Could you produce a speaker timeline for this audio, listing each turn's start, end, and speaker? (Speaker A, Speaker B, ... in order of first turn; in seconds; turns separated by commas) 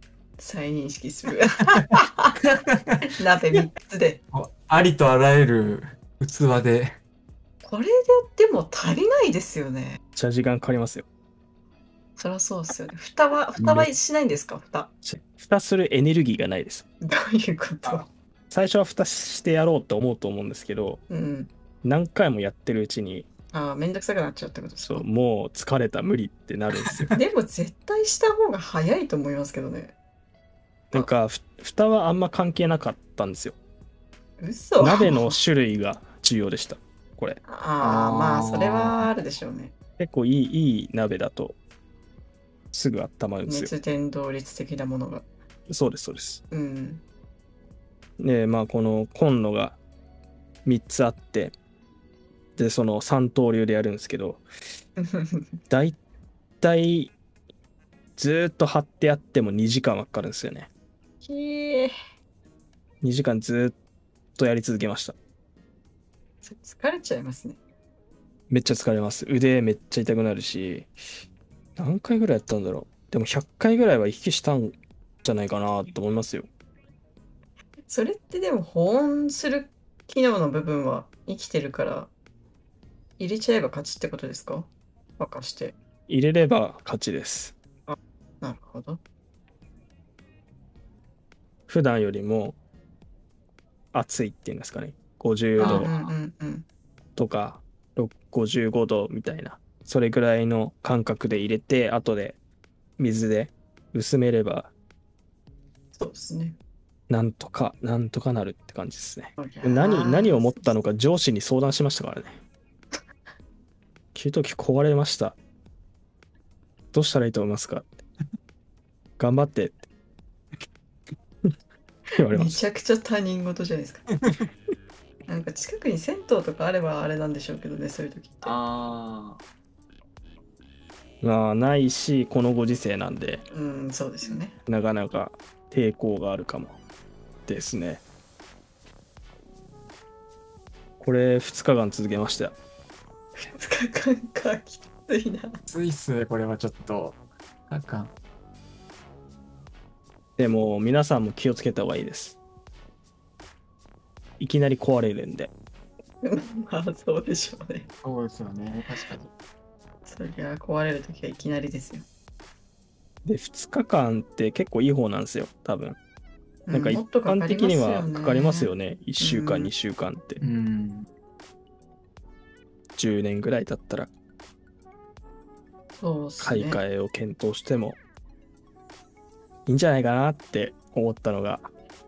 Speaker A: 0.4-2.3, Speaker B: 2.4-3.1, Speaker A: 3.1-4.2, Speaker B: 4.3-7.0, Speaker A: 7.6-10.0, Speaker C: 10.2-11.1, Speaker A: 12.2-14.9, Speaker B: 13.6-13.9, Speaker C: 15.0-16.9, Speaker A: 17.0-18.1, Speaker C: 17.9-21.0, Speaker A: 21.1-21.5, Speaker C: 21.8-23.3, Speaker A: 23.5-25.1, Speaker C: 24.8-27.1, Speaker B: 26.9-27.1, Speaker A: 27.1-29.9, Speaker C: 30.9-33.6, Speaker A: 34.4-35.4, Speaker C: 34.8-37.4, Speaker A: 37.4-39.7, Speaker B: 37.8-39.1, Speaker C: 40.0-41.6, Speaker C: 42.7-43.7, Speaker A: 43.5-45.3, Speaker C: 45.7-46.4, Speaker A: 46.5-47.0, Speaker C: 48.2-49.8, Speaker C: 50.6-51.5, Speaker C: 52.6-54.4, Speaker A: 55.0-55.5, Speaker C: 55.7-56.0, Speaker C: 56.6-57.1, Speaker C: 58.2-60.7, Speaker A: 61.2-61.9, Speaker C: 63.0-63.8, Speaker C: 64.3-65.2, Speaker A: 66.4-67.6, Speaker C: 68.5-70.9, Speaker C: 71.8-76.5, Speaker A: 77.9-82.1, Speaker A: 83.2-85.8, Speaker C: 86.1-87.6, Speaker A: 87.9-89.0, Speaker C: 91.7-92.6, Speaker C: 93.9-95.9, Speaker B: 95.6-96.1, Speaker A: 95.6-96.7, Speaker C: 97.2-102.4, Speaker C: 103.0-104.7, Speaker A: 105.9-106.6, Speaker C: 107.1-112.4, Speaker A: 109.4-110.7, Speaker C: 114.1-115.4, Speaker C: 116.9-118.0, Speaker C: 119.2-119.8, Speaker C: 122.2-122.6, Speaker A: 122.3-124.0, Speaker B: 124.2-124.5, Speaker A: 125.3-128.6, Speaker B: 128.4-129.4, Speaker C: 131.2-133.4, Speaker A: 133.5-134.5, Speaker C: 134.7-136.8, Speaker C: 137.5-138.0, Speaker C: 141.0-142.5, Speaker A: 143.4-145.6, Speaker B: 145.7-148.1, Speaker C: 150.4-152.4, Speaker C: 154.4-155.5, Speaker A: 156.2-157.9, Speaker B: 158.0-159.3, Speaker A: 160.1-162.1, Speaker C: 163.2-166.0, Speaker A: 166.7-169.7, Speaker C: 166.7-170.4, Speaker B: 170.4-171.1, Speaker C: 172.9-174.1, Speaker A: 175.9-176.8, Speaker C: 176.4-178.0, Speaker C: 179.7-181.7